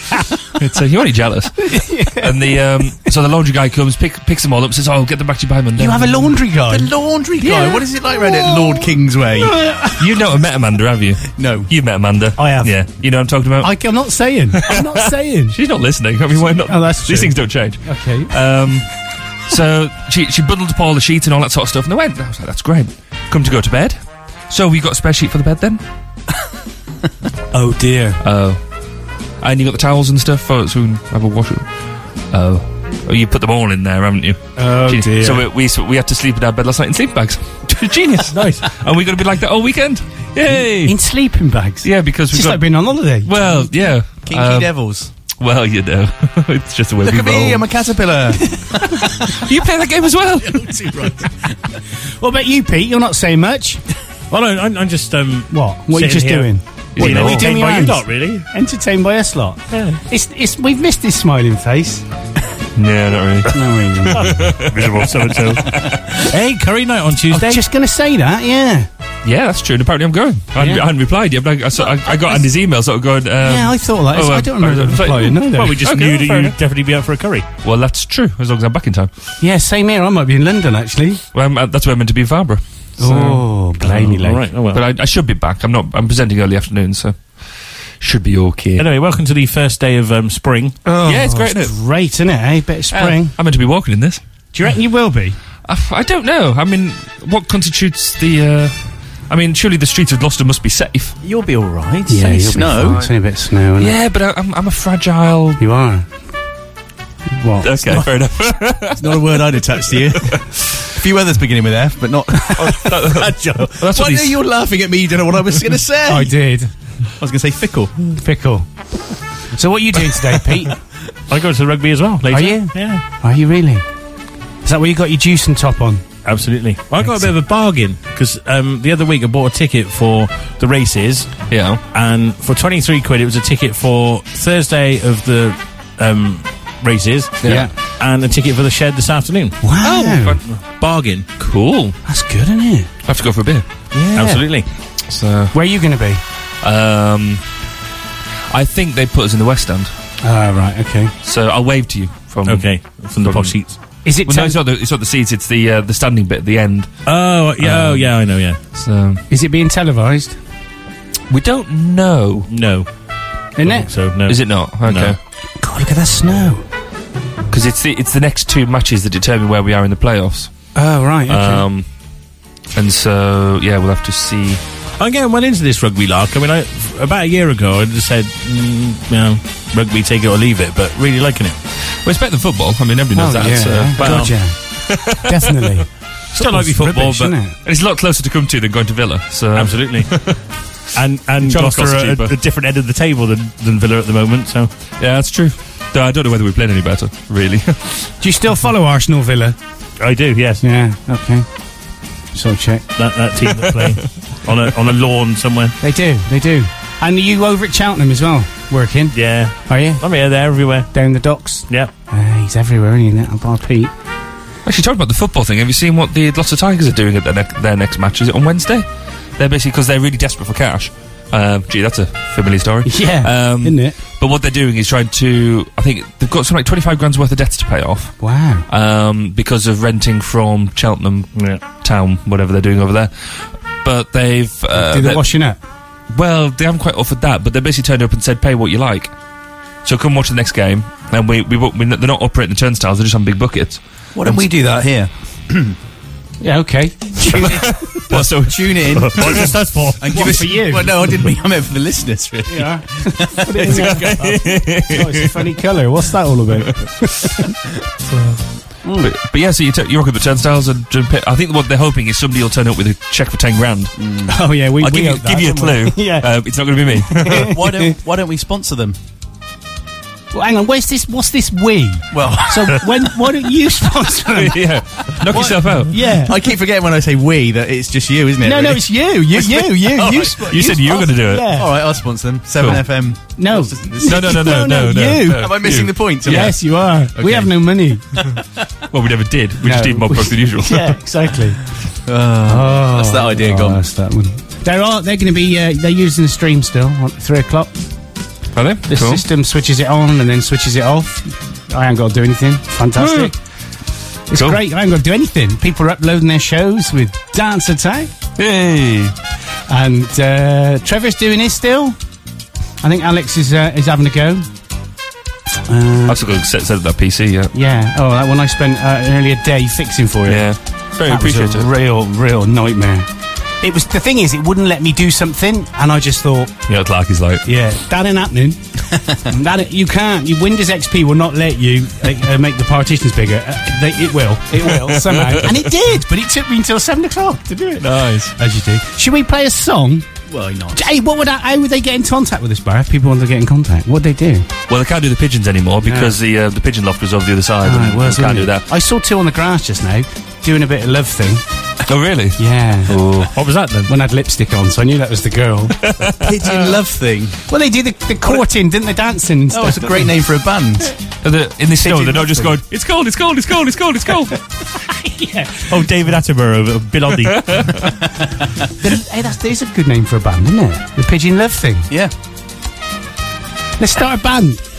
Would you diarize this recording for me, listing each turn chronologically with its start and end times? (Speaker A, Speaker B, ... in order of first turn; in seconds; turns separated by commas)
Speaker A: 0.6-6.1, Speaker B: 1.7-2.5, Speaker B: 5.8-8.8, Speaker C: 6.7-9.6, Speaker B: 9.4-10.0, Speaker A: 10.0-13.7, Speaker C: 11.3-11.7, Speaker B: 12.4-12.8, Speaker B: 13.6-15.6, Speaker A: 14.6-18.9, Speaker B: 16.6-18.3, Speaker A: 19.5-24.0, Speaker A: 24.5-25.8, Speaker B: 27.5-28.2, Speaker A: 28.2-28.6, Speaker A: 29.4-31.7, Speaker A: 32.3-41.0, Speaker B: 34.6-35.5, Speaker D: 38.3-38.7, Speaker B: 40.5-43.4, Speaker A: 41.8-44.7, Speaker C: 44.3-45.1, Speaker A: 45.4-47.6, Speaker C: 47.0-49.1, Speaker A: 49.4-50.8, Speaker C: 50.4-51.3, Speaker B: 52.2-53.8, Speaker D: 54.3-58.5, Speaker B: 55.5-62.0, Speaker A: 57.0-57.5, Speaker D: 59.7-60.0, Speaker A: 62.8-65.0, Speaker B: 63.5-64.3, Speaker D: 64.1-65.7, Speaker D: 66.3-67.6, Speaker B: 67.3-68.9, Speaker A: 69.2-76.6, Speaker B: 70.5-70.9, Speaker B: 72.0-72.4, Speaker B: 73.4-75.8, Speaker D: 75.5-77.5, Speaker A: 77.6-79.1, Speaker B: 79.4-81.2, Speaker A: 81.3-83.3, Speaker B: 83.0-84.5, Speaker D: 83.0-84.8, Speaker A: 84.7-87.4, Speaker A: 88.0-88.8, Speaker D: 88.8-90.8, Speaker A: 90.9-91.7, Speaker B: 91.0-93.3, Speaker A: 92.9-94.2, Speaker B: 94.5-95.4, Speaker A: 95.7-98.8, Speaker A: 99.3-101.2, Speaker C: 101.2-103.0, Speaker B: 102.1-104.0, Speaker A: 102.8-103.1, Speaker A: 103.8-105.6, Speaker B: 105.6-106.1, Speaker B: 107.3-107.7, Speaker A: 107.6-109.2, Speaker C: 109.0-116.3, Speaker A: 112.6-114.4, Speaker B: 116.1-116.7, Speaker C: 117.2-117.9, Speaker B: 118.2-118.7, Speaker B: 119.6-120.8, Speaker D: 121.3-123.0, Speaker B: 122.3-123.8, Speaker B: 124.6-126.0, Speaker D: 126.2-139.6, Speaker A: 131.5-131.8, Speaker B: 137.4-137.7, Speaker B: 139.6-140.4, Speaker A: 139.8-140.4, Speaker D: 140.5-141.3, Speaker A: 141.4-141.9, Speaker B: 142.1-142.9, Speaker A: 143.1-143.7, Speaker D: 144.1-144.7, Speaker A: 145.1-145.5, Speaker B: 145.5-146.2, Speaker A: 146.6-147.4, Speaker A: 148.5-149.9, Speaker B: 150.2-151.1, Speaker A: 151.2-153.7, Speaker D: 152.4-153.8, Speaker B: 154.1-154.6, Speaker A: 154.2-156.9, Speaker D: 157.1-158.6, Speaker A: 157.6-158.1, Speaker A: 158.7-159.2, Speaker B: 159.3-160.4, Speaker A: 161.3-162.5, Speaker D: 162.5-162.9, Speaker B: 163.6-163.9, Speaker D: 163.6-165.2, Speaker A: 164.3-165.2, Speaker B: 165.6-166.6, Speaker A: 167.5-170.5, Speaker B: 170.8-171.7, Speaker A: 171.3-171.9, Speaker A: 172.8-174.6, Speaker D: 175.0-181.6, Speaker A: 182.1-184.3, Speaker B: 183.1-184.6, Speaker D: 184.0-184.3, Speaker A: 184.9-185.7, Speaker B: 185.1-187.5, Speaker D: 186.3-187.3, Speaker A: 186.8-190.4, Speaker D: 189.5-190.1, Speaker D: 190.9-194.7, Speaker A: 191.4-192.3, Speaker A: 195.0-198.1, Speaker B: 198.2-199.6, Speaker D: 200.0-200.6, Speaker B: 200.6-201.5, Speaker B: 202.3-202.8, Speaker D: 203.0-205.8, Speaker B: 205.8-210.0, Speaker D: 209.1-210.9, Speaker B: 210.9-213.9, Speaker A: 214.7-218.8, Speaker A: 219.4-228.2, Speaker B: 222.8-224.0, Speaker B: 228.2-228.7, Speaker A: 228.7-235.3, Speaker D: 231.3-231.6, Speaker B: 234.7-235.6, Speaker A: 236.1-239.1, Speaker A: 239.8-244.4, Speaker C: 244.2-245.8, Speaker B: 246.4-247.7, Speaker C: 247.3-247.6, Speaker A: 247.4-249.5, Speaker C: 248.1-249.4, Speaker D: 248.9-250.4, Speaker C: 250.0-254.3, Speaker B: 250.1-250.9, Speaker B: 252.5-257.3, Speaker A: 253.7-255.3, Speaker A: 258.1-258.4, Speaker A: 259.0-263.9, Speaker C: 264.0-264.4, Speaker B: 264.3-266.3, Speaker A: 264.8-267.5, Speaker B: 267.1-267.9, Speaker C: 267.3-269.0, Speaker B: 270.3-274.6, Speaker C: 272.1-272.8, Speaker A: 274.3-275.9, Speaker B: 275.3-276.4, Speaker C: 276.3-280.6, Speaker B: 278.4-281.7, Speaker A: 280.5-281.6, Speaker C: 281.5-286.6, Speaker B: 283.4-285.5, Speaker A: 284.0-286.5, Speaker B: 286.2-288.0, Speaker C: 287.1-287.5, Speaker A: 288.9-291.0, Speaker B: 289.6-291.6, Speaker C: 292.1-293.8, Speaker B: 292.4-297.7, Speaker A: 298.6-299.2, Speaker B: 298.9-303.3, Speaker A: 303.0-303.3, Speaker B: 304.3-308.1, Speaker A: 304.3-304.6, Speaker A: 308.4-309.1, Speaker B: 309.7-312.0, Speaker B: 312.8-314.5, Speaker B: 315.7-316.2, Speaker A: 316.1-317.5, Speaker B: 317.5-320.4, Speaker A: 320.3-321.7, Speaker B: 321.1-323.1, Speaker B: 323.6-326.5, Speaker A: 326.7-327.4, Speaker B: 327.5-328.6, Speaker B: 329.3-340.1, Speaker A: 335.0-335.5, Speaker A: 337.8-338.3, Speaker C: 340.3-340.9, Speaker B: 340.7-344.5, Speaker A: 344.7-348.6, Speaker B: 345.8-346.1, Speaker B: 347.6-351.4, Speaker A: 351.9-353.3, Speaker B: 352.4-353.0, Speaker D: 353.2-353.9, Speaker B: 353.9-355.8, Speaker A: 355.8-356.7, Speaker C: 356.2-357.4, Speaker B: 357.5-360.1, Speaker C: 359.5-360.9, Speaker A: 361.2-364.3, Speaker C: 361.8-362.6, Speaker B: 364.9-365.7, Speaker D: 365.7-367.8, Speaker B: 368.8-371.9, Speaker B: 373.8-374.6